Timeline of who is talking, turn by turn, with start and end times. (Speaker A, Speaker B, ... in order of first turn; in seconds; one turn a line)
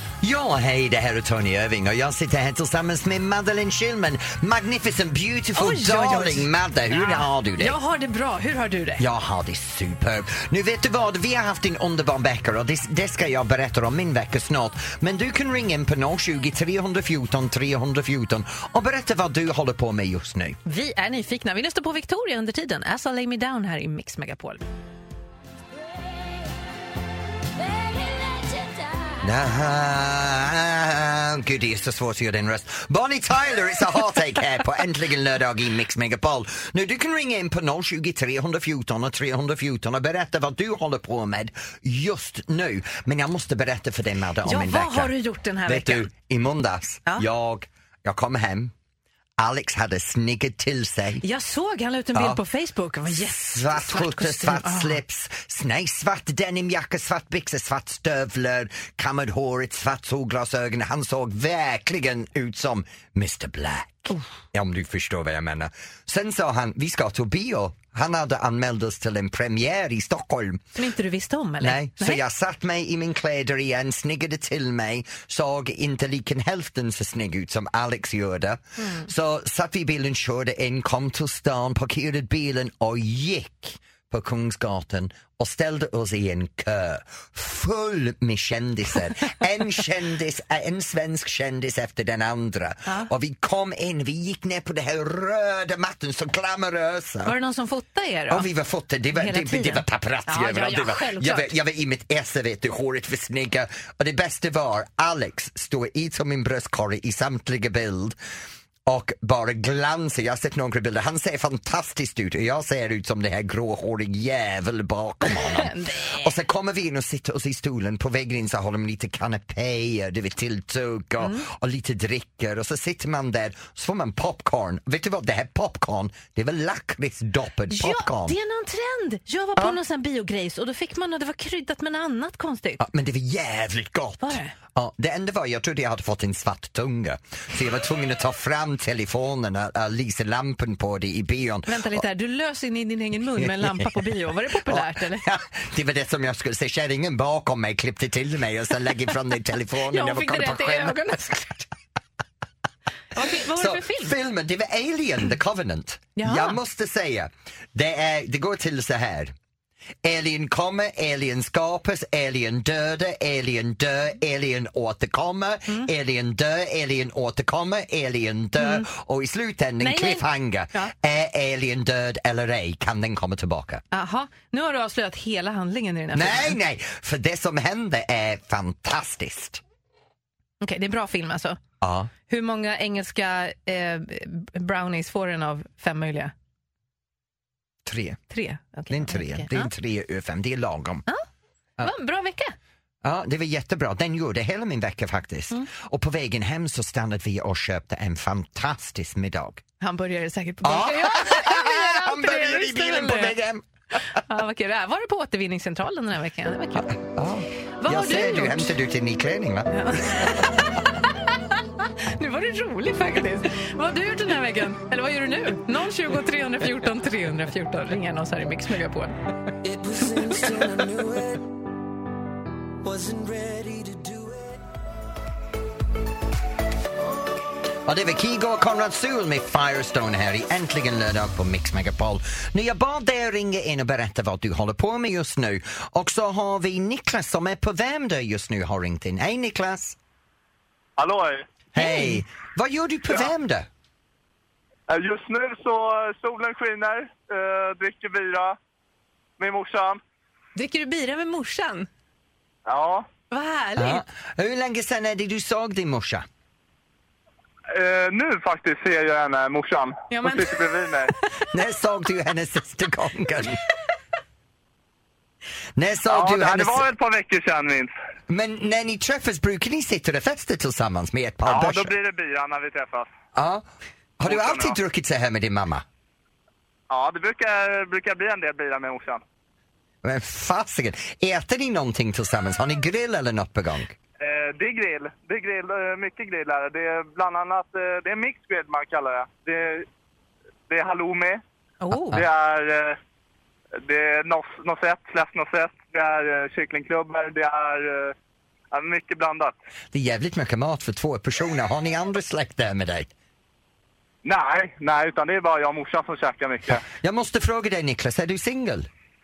Speaker A: 0.2-7.8
Speaker B: 5.5-9.0
Speaker A: 9.0-20.6
Speaker B: 20.6-24.6
Speaker A: 29.2-45.1
Speaker B: 44.4-46.1
Speaker A: 45.6-48.7
Speaker A: 49.4-51.2
Speaker B: 51.2-55.0
Speaker A: 52.1-52.4
Speaker A: 53.1-70.7
Speaker B: 70.8-72.2
Speaker A: 71.6-97.3
Speaker B: 78.8-79.1
Speaker B: 97.2-98.5
Speaker A: 98.3-108.2
Speaker B: 99.1-101.5
Speaker A: 108.8-128.3
Speaker B: 115.3-116.3
Speaker B: 121.2-121.5
Speaker B: 127.7-132.8
Speaker A: 132.8-142.0
Speaker B: 134.2-134.5
Speaker B: 141.7-145.2
Speaker A: 143.4-151.7
Speaker B: 149.9-151.5
Speaker B: 153.1-154.2
Speaker A: 153.2-159.3
Speaker B: 156.2-156.6
Speaker A: 160.0-173.8
Speaker B: 168.6-168.9
Speaker B: 169.8-170.9
Speaker B: 173.9-176.6
Speaker A: 176.1-179.6
Speaker B: 180.6-181.6
Speaker A: 181.8-182.1
Speaker B: 182.3-186.3
Speaker A: 187.8-188.2
Speaker B: 188.3-189.7
Speaker A: 188.9-191.1
Speaker B: 191.8-192.5
Speaker A: 193.0-199.6
Speaker B: 199.8-203.3
Speaker A: 200.6-203.6
Speaker B: 204.1-207.0
Speaker A: 206.8-210.4
Speaker B: 207.8-208.7
Speaker B: 209.7-219.2
Speaker C: 219.6-221.5
Speaker C: 222.8-224.6
Speaker A: 227.8-240.0
Speaker D: 241.0-241.4
Speaker A: 241.7-243.7
Speaker B: 241.8-242.2
Speaker D: 244.9-248.6
Speaker D: 249.4-250.0
Speaker B: 250.5-251.9
Speaker D: 252.7-253.1
Speaker B: 253.3-254.0
Speaker A: 253.8-256.2
Speaker D: 257.7-261.1
Speaker B: 260.1-261.2
Speaker A: 261.5-263.6
Speaker A: 265.8-266.9
Speaker D: 266.1-267.9
Speaker A: 268.3-271.9
Speaker D: 271.4-273.1
Speaker A: 273.3-273.6
Speaker A: 274.2-275.8
Speaker D: 274.3-274.8
Speaker D: 276.9-279.2
Speaker A: 280.0-283.9
Speaker D: 284.2-289.9
Speaker D: 290.7-291.4
Speaker B: 291.8-292.2
Speaker D: 292.1-293.0
Speaker D: 293.8-298.1
Speaker D: 298.7-299.5
Speaker A: 299.9-303.1
Speaker D: 304.2-306.8
Speaker A: 306.7-308.9